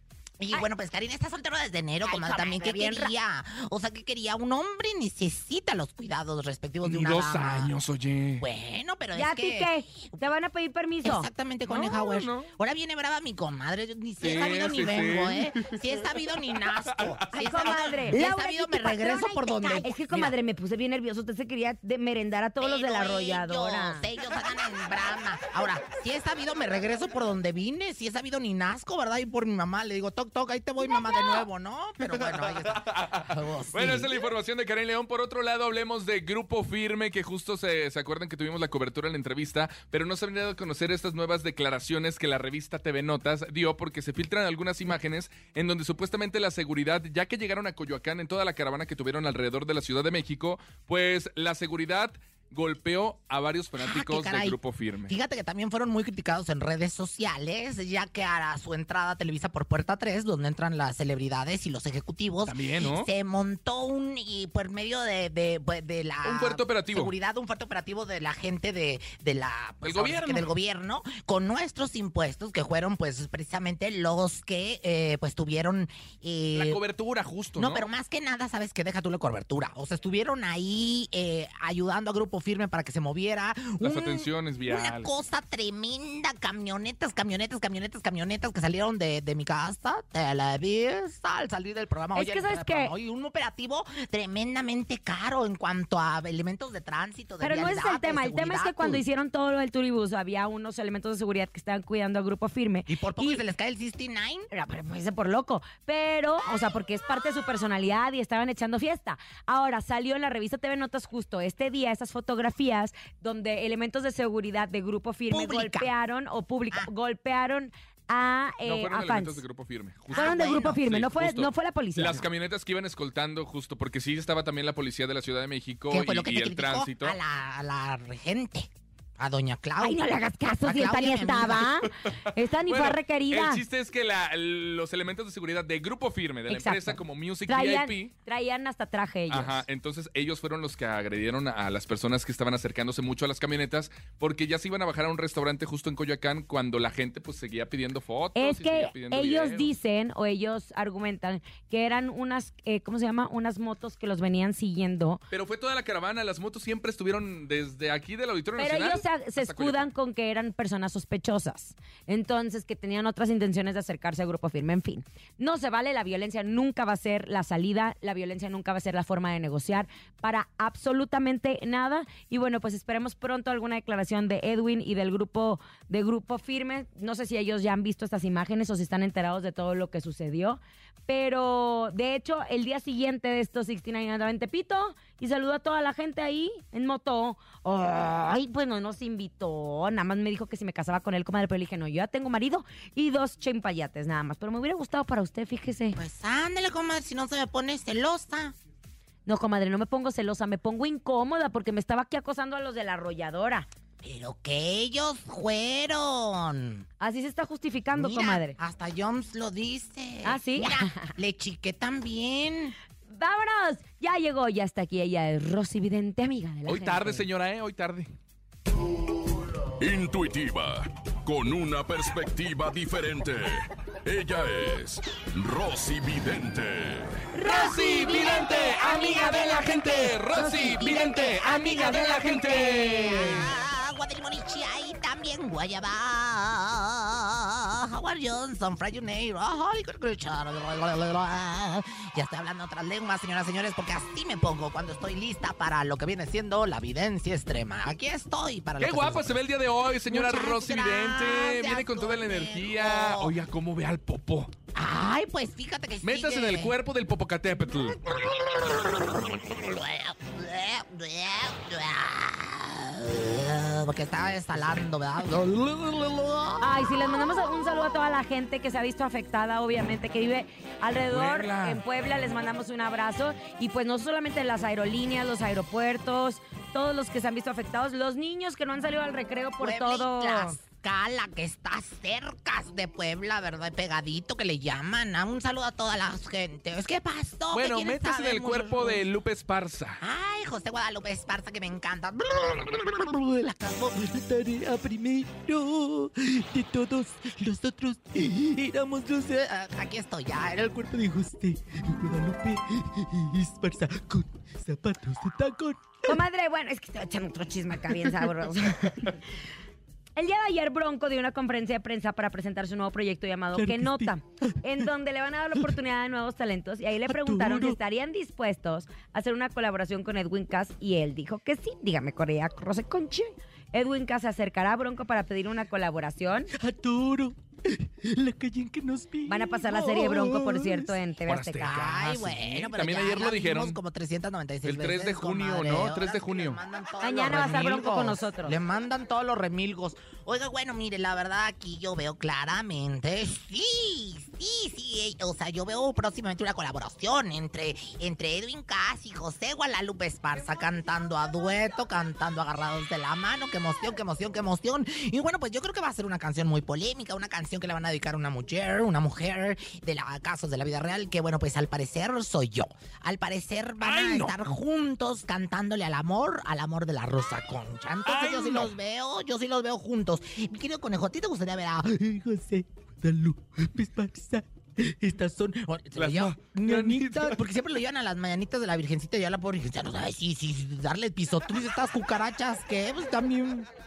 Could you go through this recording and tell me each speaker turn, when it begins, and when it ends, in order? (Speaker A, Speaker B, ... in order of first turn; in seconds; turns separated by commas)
Speaker A: 0.4-7.7, Speaker B: 2.0-3.1, Speaker C: 6.8-8.4, Speaker A: 8.4-10.2, Speaker B: 9.2-11.3, Speaker A: 11.0-20.3, Speaker C: 11.7-12.5, Speaker C: 14.2-16.0, Speaker C: 16.9-18.2, Speaker B: 17.3-24.1, Speaker A: 22.6-34.2, Speaker C: 32.2-55.1, Speaker A: 53.8-76.8, Speaker C: 62.5-63.1, Speaker C: 66.2-67.1, Speaker C: 69.8-70.5, Speaker C: 76.5-77.8, Speaker A: 77.6-99.0, Speaker C: 83.8-85.1, Speaker B: 92.2-92.9, Speaker B: 97.4-103.4, Speaker A: 102.9-104.5, Speaker B: 104.5-119.4, Speaker A: 115.3-115.9, Speaker C: 118.7-127.2, Speaker A: 120.1-120.8, Speaker B: 120.1-122.3, Speaker A: 125.9-131.7, Speaker B: 129.8-133.6, Speaker C: 132.7-138.1, Speaker B: 136.5-139.7, Speaker C: 139.3-149.7, Speaker B: 148.4-155.2, Speaker C: 155.3-159.9, Speaker B: 158.6-196.0, Speaker A: 196.0-198.6, Speaker B: 199.3-203.7, Speaker A: 204.0-206.9, Speaker B: 207.0-208.6, Speaker A: 207.9-212.8, Speaker B: 210.2-211.1, Speaker B: 213.1-217.3, Speaker C: 216.7-218.1, Speaker D: 219.8-227.2, Speaker B: 227.3-230.9, Speaker C: 227.4-233.5, Speaker A: 230.5-249.4, Speaker B: 232.1-233.4, Speaker C: 248.8-254.5, Speaker A: 250.1-253.3, Speaker A: 254.8-256.7, Speaker C: 256.0-258.0, Speaker A: 258.1-266.6, Speaker B: 266.6-280.6, Speaker C: 271.1-271.8, Speaker A: 279.6-289.1, Speaker C: 287.5-290.0, Speaker A: 290.0-294.0, Speaker E: 294.0-299.4, Speaker A: 299.3-300.9, Speaker E: 300.7-306.1, Speaker B: 306.0-309.2, Speaker B: 310.2-326.5, Speaker E: 313.6-314.1, Speaker E: 317.1-317.8, Speaker E: 326.6-329.6, Speaker B: 329.3-331.7, Speaker C: 329.7-330.8, Speaker C: 331.3-333.8, Speaker A: 331.6-372.1, Speaker C: 334.6-336.6, Speaker B: 337.0-338.6, Speaker C: 337.2-338.0, Speaker C: 363.8-364.3, Speaker C: 368.1-368.7, Speaker E: 372.1-375.4, Speaker A: 375.4-383.7, Speaker C: 375.9-377.4